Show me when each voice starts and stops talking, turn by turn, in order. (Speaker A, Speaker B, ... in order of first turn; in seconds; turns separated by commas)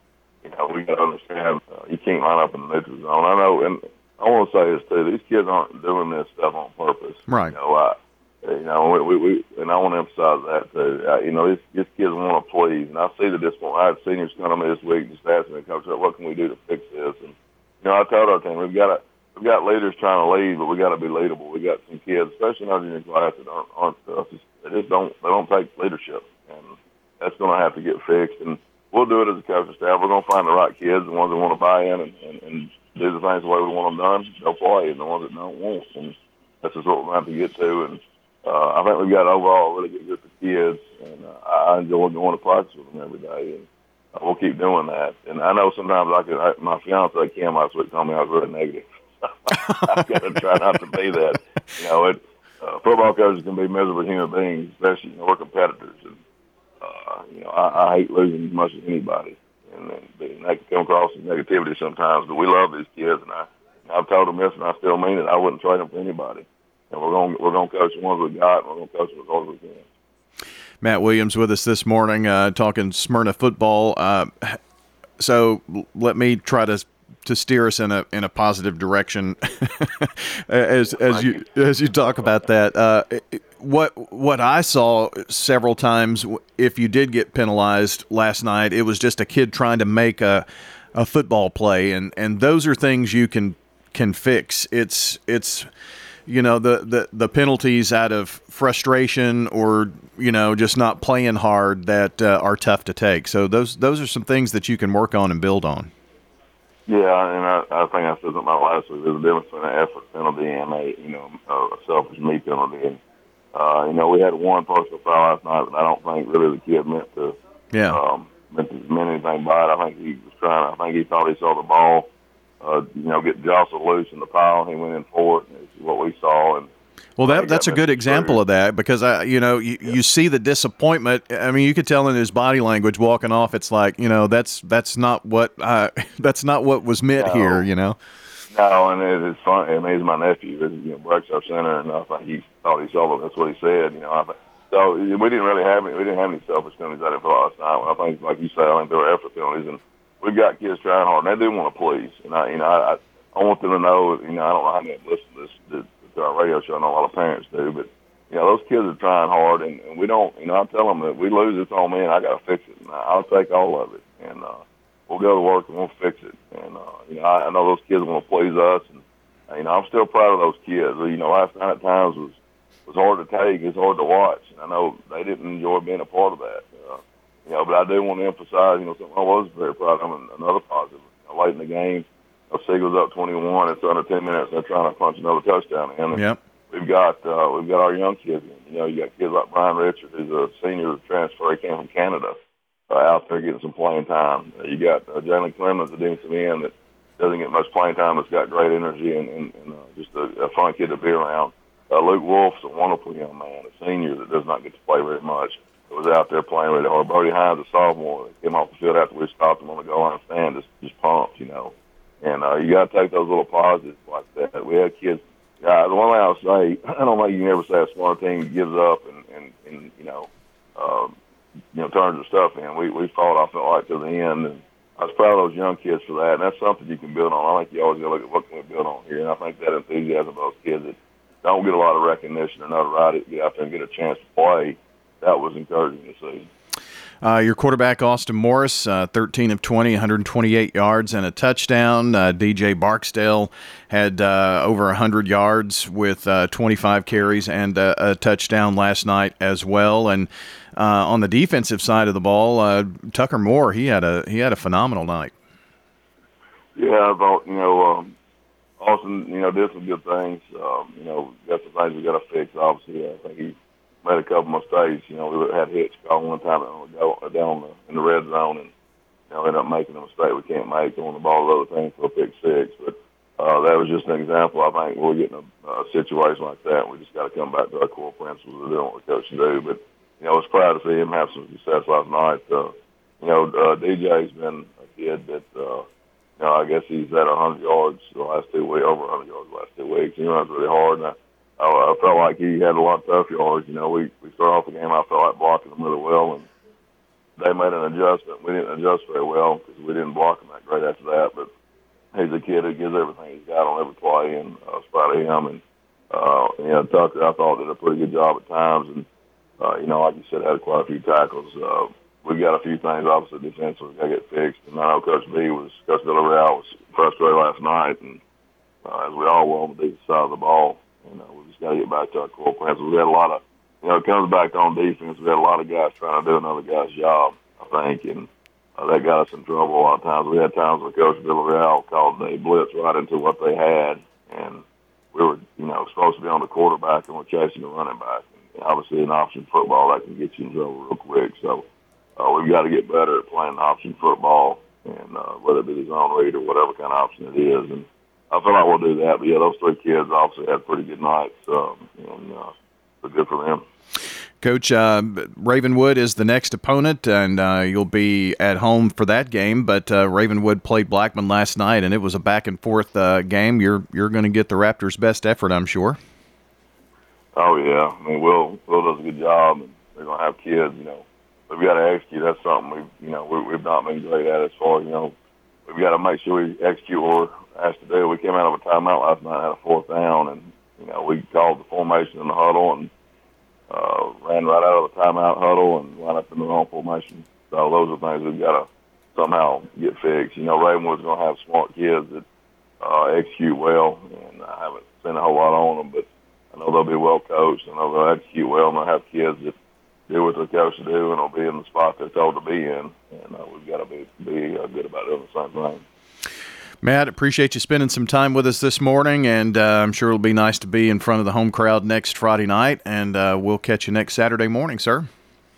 Speaker A: 0.4-56.2, Speaker B: 7.3-7.5, Speaker A: 56.8-69.8, Speaker B: 70.8-74.6, Speaker B: 75.2-95.7, Speaker A: 81.1-81.3, Speaker B: 96.3-105.9, Speaker A: 106.9-113.0, Speaker A: 113.5-126.7, Speaker B: 117.7-118.0, Speaker B: 127.2-138.0, Speaker A: 127.2-128.4, Speaker A: 137.2-137.7, Speaker A: 138.5-192.3, Speaker B: 186.1-186.4, Speaker A: 192.9-221.2, Speaker A: 221.7-236.5, Speaker B: 237.2-255.3, Speaker A: 256.8-258.1, Speaker A: 258.8-268.7, Speaker A: 269.3-285.9, Speaker A: 286.4-296.5, Speaker A: 297.4-301.5, Speaker A: 302.1-309.1, Speaker A: 309.6-318.2, Speaker A: 318.8-341.6, Speaker A: 342.2-353.6, Speaker B: 354.4-366.0, Speaker A: 367.3-375.1, Speaker A: 375.6-382.9, Speaker A: 383.7-392.2, Speaker A: 392.8-399.6, Speaker A: 400.1-405.8, Speaker B: 406.8-415.1